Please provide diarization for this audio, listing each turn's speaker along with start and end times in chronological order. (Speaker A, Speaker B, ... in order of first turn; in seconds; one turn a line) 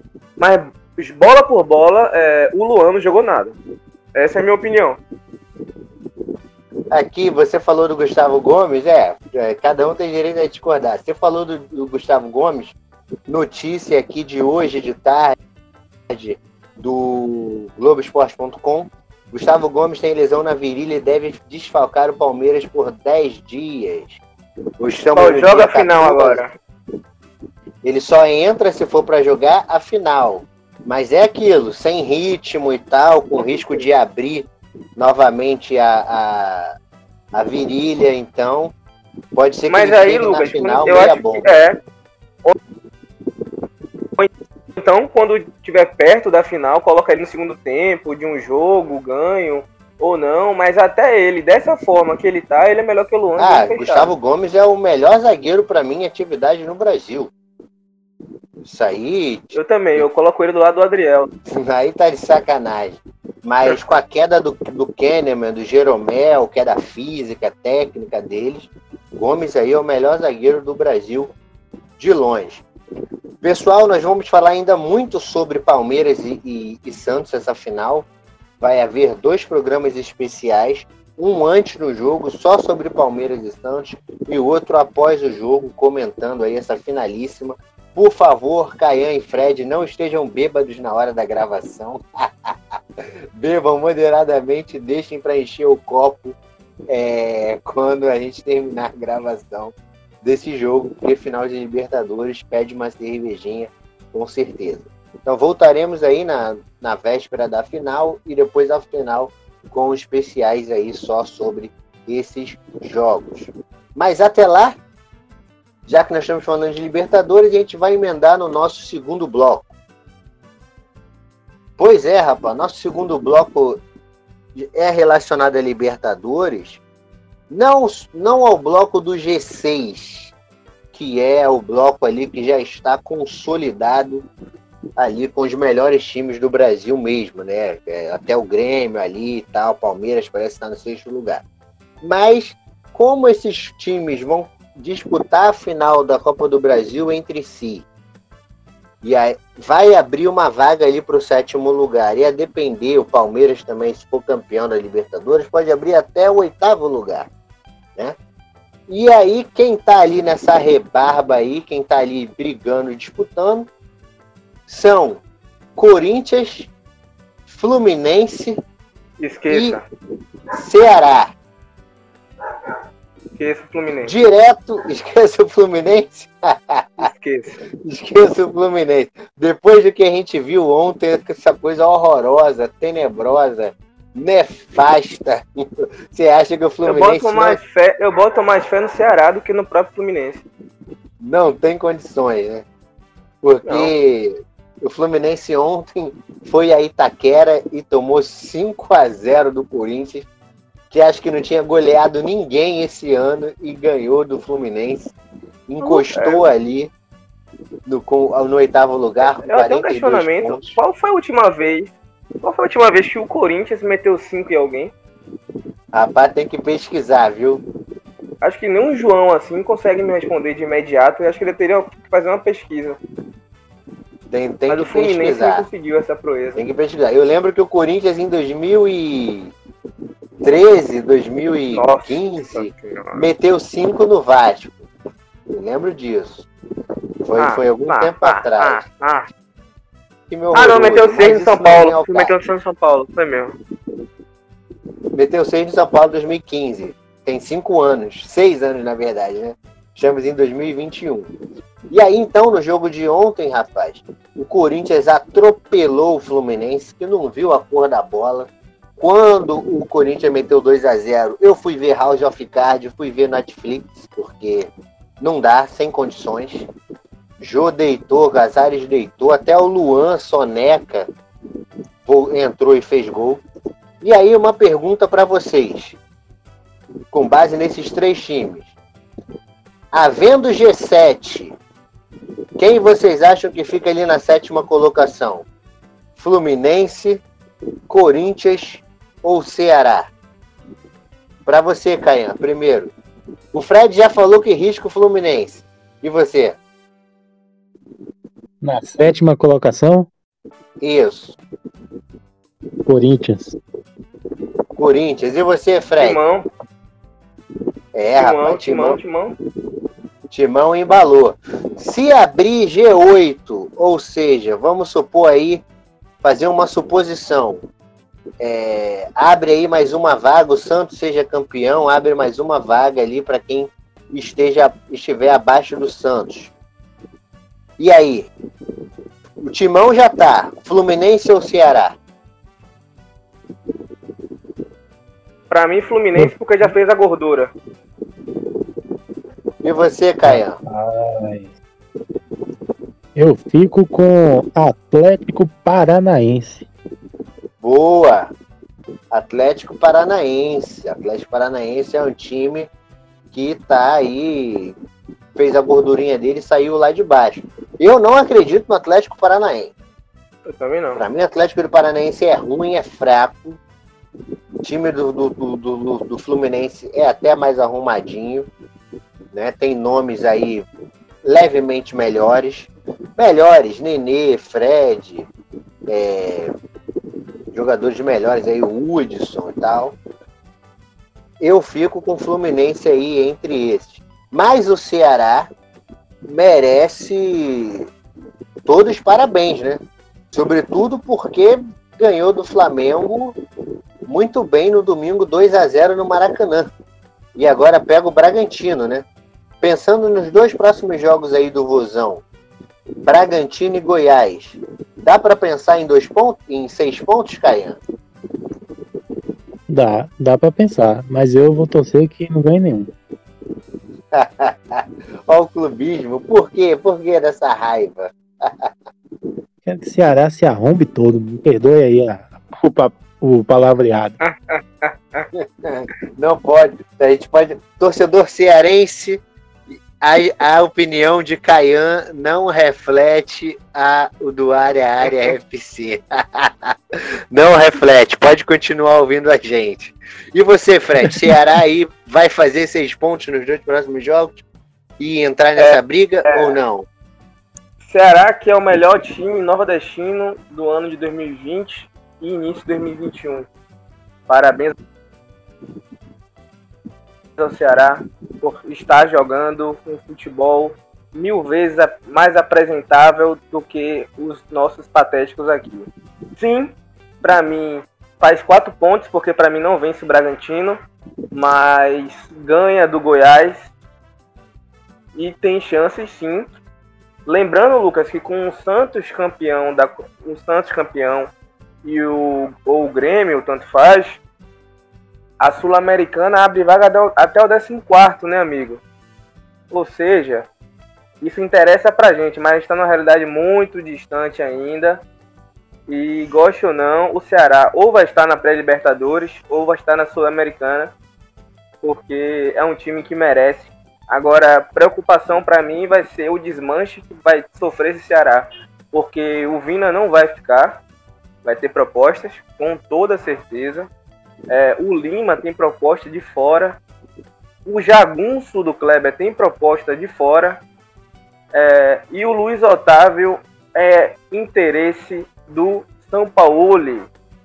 Speaker A: 0.4-3.5
Speaker A: 4.2-5.0
Speaker B: 6.9-12.8
Speaker B: 13.3-15.3
Speaker B: 16.1-24.2
Speaker B: 24.8-26.4
Speaker A: 25.1-26.5
Speaker B: 27.8-36.7
Speaker A: 33.4-33.9
Speaker B: 37.3-38.7
Speaker B: 39.3-41.5
Speaker A: 39.7-41.8
Speaker A: 44.2-54.1
Speaker B: 53.4-57.3
Speaker B: 58.6-60.0
Speaker A: 59.5-61.3
Speaker B: 61.5-71.3
Speaker B: 72.0-72.6
Speaker B: 73.4-78.1
Speaker B: 78.6-92.8
Speaker B: 93.4-96.4
Speaker B: 96.9-114.8
Speaker B: 115.9-119.7
Speaker B: 121.8-123.8
Speaker B: 124.6-126.8
Speaker B: 127.5-130.3
Speaker B: 130.9-134.2
Speaker B: 135.0-141.4
Speaker B: 142.0-147.8
Speaker B: 149.0-157.3
Speaker B: 158.9-163.7
Speaker B: 164.7-165.2
Speaker B: 165.8-166.7
Speaker B: 167.5-168.6
Speaker A: 169.2-169.8
Speaker B: 169.5-169.8
Speaker B: 170.5-171.3
Speaker A: 173.3-174.1
Speaker B: 174.0-177.1
Speaker A: 177.0-177.5
Speaker B: 177.8-187.6
Speaker A: 186.8-190.4
Speaker B: 191.2-192.6
Speaker B: 193.4-200.2
Speaker A: 193.7-193.9
Speaker B: 200.9-205.1
Speaker B: 205.7-206.9
Speaker A: 205.8-206.4
Speaker B: 207.9-210.8
Speaker A: 209.2-214.9
Speaker B: 215.9-217.6
Speaker A: 218.4-223.0
Speaker B: 224.3-225.7
Speaker A: 224.7-226.6
Speaker B: 226.6-229.5
Speaker B: 230.4-234.8
Speaker A: 231.7-233.3
Speaker B: 235.5-236.4
Speaker B: 237.2-238.8
Speaker A: 237.4-239.2
Speaker B: 240.3-242.4
Speaker A: 240.5-243.5
Speaker B: 245.1-251.2
Speaker B: 251.9-264.7
Speaker B: 265.2-266.6
Speaker B: 267.4-271.1
Speaker B: 272.1-273.4
Speaker B: 274.0-276.0
Speaker B: 277.1-278.7
Speaker B: 279.9-281.5
Speaker B: 282.6-285.4
Speaker B: 286.2-287.2
Speaker B: 287.9-290.1
Speaker B: 291.4-292.9
Speaker B: 293.5-296.6
Speaker C: 298.6-300.1
Speaker B: 300.8-301.4
Speaker C: 302.9-303.6
Speaker B: 304.8-306.2
Speaker A: 306.0-306.4
Speaker B: 307.9-309.0
Speaker A: 308.1-309.3
Speaker B: 310.3-315.6
Speaker B: 316.2-317.6
Speaker B: 318.4-326.5
Speaker B: 327.8-328.3
Speaker B: 329.4-331.9
Speaker A: 335.5-337.5
Speaker C: 336.1-336.7
Speaker B: 339.6-340.6
Speaker C: 340.2-341.5
Speaker C: 343.1-346.6
Speaker B: 347.6-348.3
Speaker B: 349.1-352.7
Speaker B: 353.3-354.7
Speaker B: 355.4-359.7
Speaker A: 360.5-361.0
Speaker B: 361.0-363.6
Speaker B: 364.6-368.5
Speaker B: 369.3-370.6
Speaker B: 371.2-375.3
Speaker B: 375.9-376.5
Speaker B: 377.5-379.9
Speaker B: 381.4-385.5
Speaker B: 386.3-387.8
Speaker B: 388.6-389.8
Speaker B: 390.3-393.3
Speaker B: 394.1-396.7
Speaker B: 397.4-399.0
Speaker B: 399.6-402.2
Speaker B: 403.1-407.8
Speaker C: 409.7-412.9
Speaker B: 414.1-418.7
Speaker C: 419.6-424.1
Speaker A: 424.2-425.3
Speaker B: 425.3-429.2
Speaker B: 430.0-436.7
Speaker B: 437.3-444.4
Speaker B: 445.0-446.9
Speaker A: 445.6-446.5
Speaker A: 447.8-453.5
Speaker A: 454.3-454.8
Speaker A: 457.4-465.9
Speaker A: 466.4-470.8
Speaker A: 471.3-473.7
Speaker A: 475.1-476.5
Speaker A: 477.2-481.3
Speaker A: 481.8-484.2
Speaker A: 485.4-488.8
Speaker A: 489.7-490.5
Speaker A: 491.2-495.0
Speaker A: 495.9-500.9
Speaker A: 501.8-510.8
Speaker A: 511.4-513.9
Speaker A: 514.5-516.8
Speaker A: 517.6-520.6
Speaker A: 521.5-527.1